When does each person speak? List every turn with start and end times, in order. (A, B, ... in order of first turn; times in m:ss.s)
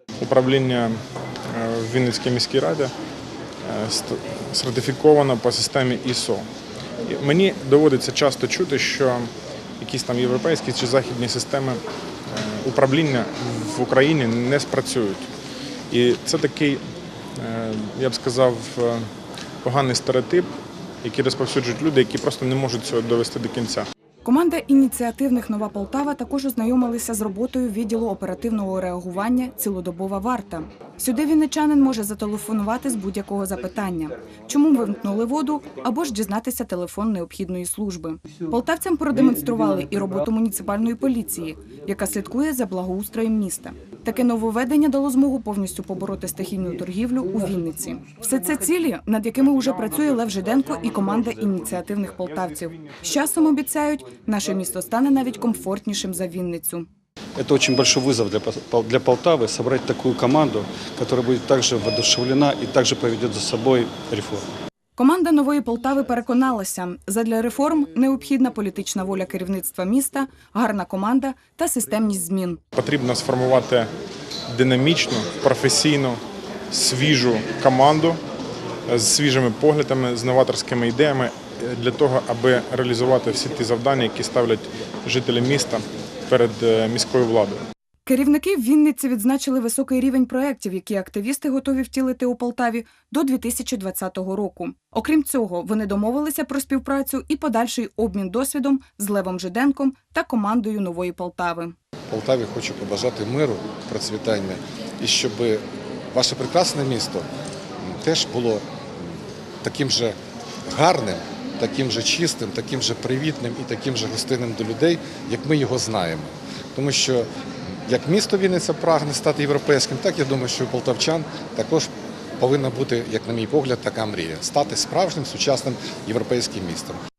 0:00.2-0:01.0 A
0:01.5-0:02.9 A
0:03.6-0:06.4 A
0:07.1-0:15.3 A
0:15.9-0:16.8 A
0:17.4-0:19.1 A
0:19.6-0:20.5 A
0:21.0-0:23.9 A
0:24.2-0:56.9 B
0:57.4-1:04.5 C
1:05.0-1:12.6 B
1:12.8-1:13.9 A
1:14.5-1:18.2 A
1:18.9-1:27.6 A
1:28.1-1:41.8 B
1:42.1-1:47.3 D
1:47.8-1:57.3 D
1:57.9-2:07.0 D